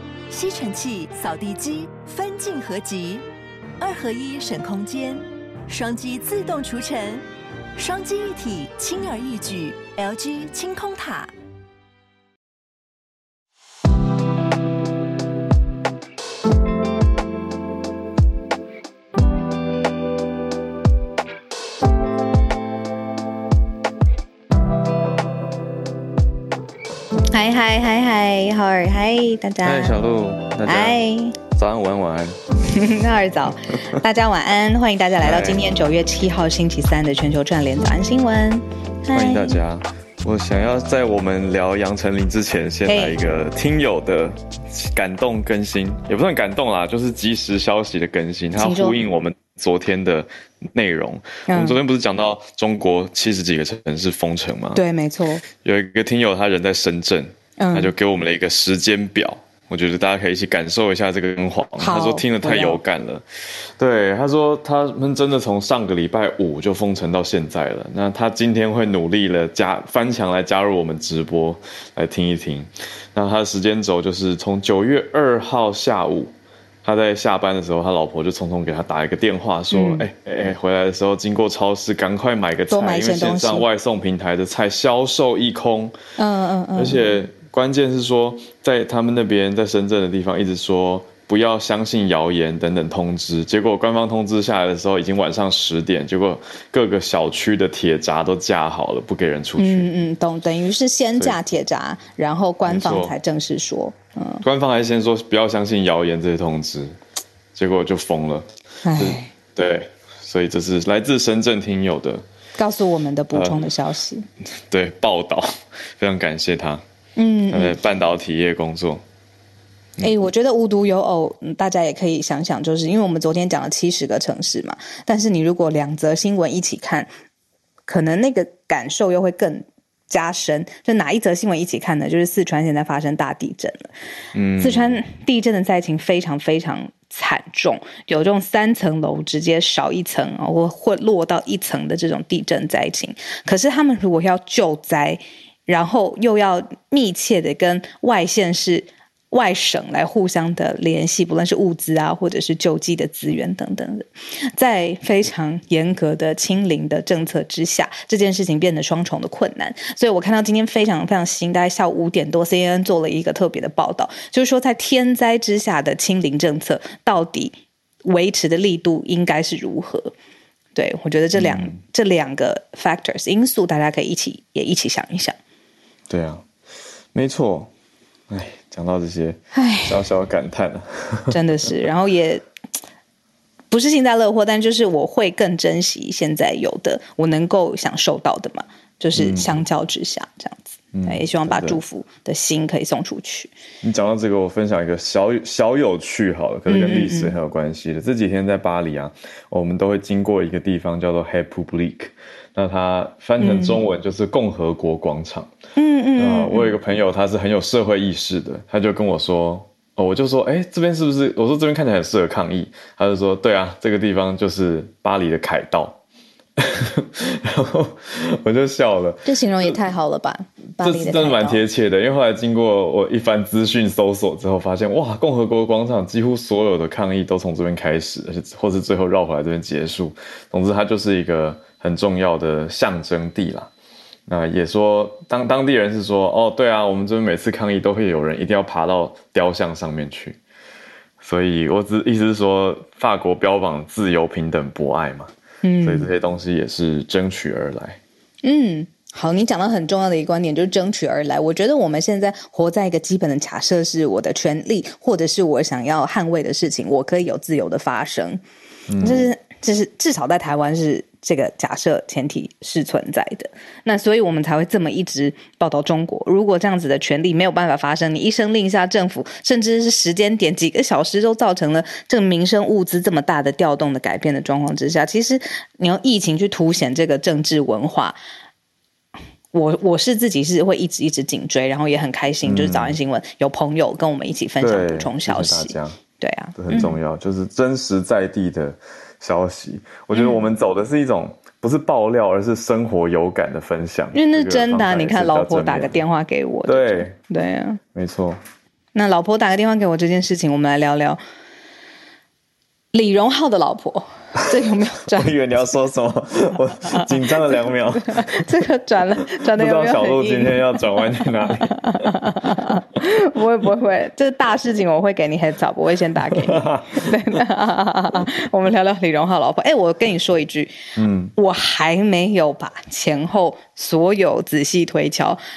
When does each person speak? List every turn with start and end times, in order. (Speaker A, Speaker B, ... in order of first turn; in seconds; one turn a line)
Speaker A: 0.3-3.2
Speaker A: 3.8-7.2
Speaker A: 7.8-11.3
Speaker B: 27.3-30.0
Speaker C: 29.6-32.4
Speaker B: 30.6-31.4
Speaker B: 32.7-39.6
Speaker C: 35.2-35.6
Speaker C: 39.1-54.8
Speaker B: 42.9-43.2
Speaker B: 48.5-49.0
Speaker B: 51.5-51.8
Speaker B: 54.7-55.4
Speaker C: 55.5-63.2
Speaker B: 57.6-57.9
Speaker B: 61.8-62.8
Speaker C: 63.8-76.3
Speaker C: 76.8-86.0
Speaker B: 79.7-80.0
Speaker B: 82.7-83.6
Speaker B: 86.2-87.0
Speaker C: 86.8-99.9
Speaker B: 99.6-104.4
Speaker C: 102.7-103.2
Speaker C: 104.4-107.0
Speaker C: 107.5-112.2
Speaker B: 108.8-109.3
Speaker B: 112.6-114.2
Speaker C: 113.3-113.6
Speaker C: 114.7-116.8
Speaker B: 117.2-117.8
Speaker C: 117.5-119.0
Speaker C: 120.0-120.2
Speaker B: 120.0-127.1
Speaker B: 127.9-133.9
Speaker C: 134.3-135.0
Speaker B: 134.6-167.5
Speaker B: 168.0-170.1
Speaker B: 170.7-175.3
Speaker C: 171.3-171.8
Speaker C: 176.1-176.4
Speaker C: 177.1-177.7
Speaker C: 178.3-181.3
Speaker B: 179.5-180.0
Speaker B: 181.3-182.4
Speaker B: 183.7-193.5
Speaker C: 189.1-189.6
Speaker C: 190.9-191.8
Speaker C: 193.8-205.5
Speaker B: 196.7-197.3
Speaker B: 203.4-203.8
Speaker B: 205.8-206.7
Speaker C: 206.2-216.0
Speaker C: 216.6-219.8
Speaker B: 219.2-221.6
Speaker C: 220.8-233.7
Speaker C: 234.3-240.4
Speaker C: 241.2-248.0
Speaker B: 245.6-246.1
Speaker B: 248.4-258.4
Speaker C: 258.9-259.3
Speaker B: 259.0-278.2
Speaker B: 279.5-287.0
Speaker C: 282.4-283.0
Speaker C: 284.6-286.0
Speaker C: 286.6-295.9
Speaker B: 290.1-290.4
Speaker B: 294.1-297.8
Speaker C: 296.6-297.2
Speaker C: 297.9-298.4
Speaker B: 298.9-301.2
Speaker B: 302.9-305.3
Speaker C: 305.1-308.4
Speaker B: 306.9-320.7
Speaker C: 309.4-312.1
Speaker C: 316.3-317.1
Speaker C: 321.0-321.3
Speaker B: 321.4-325.4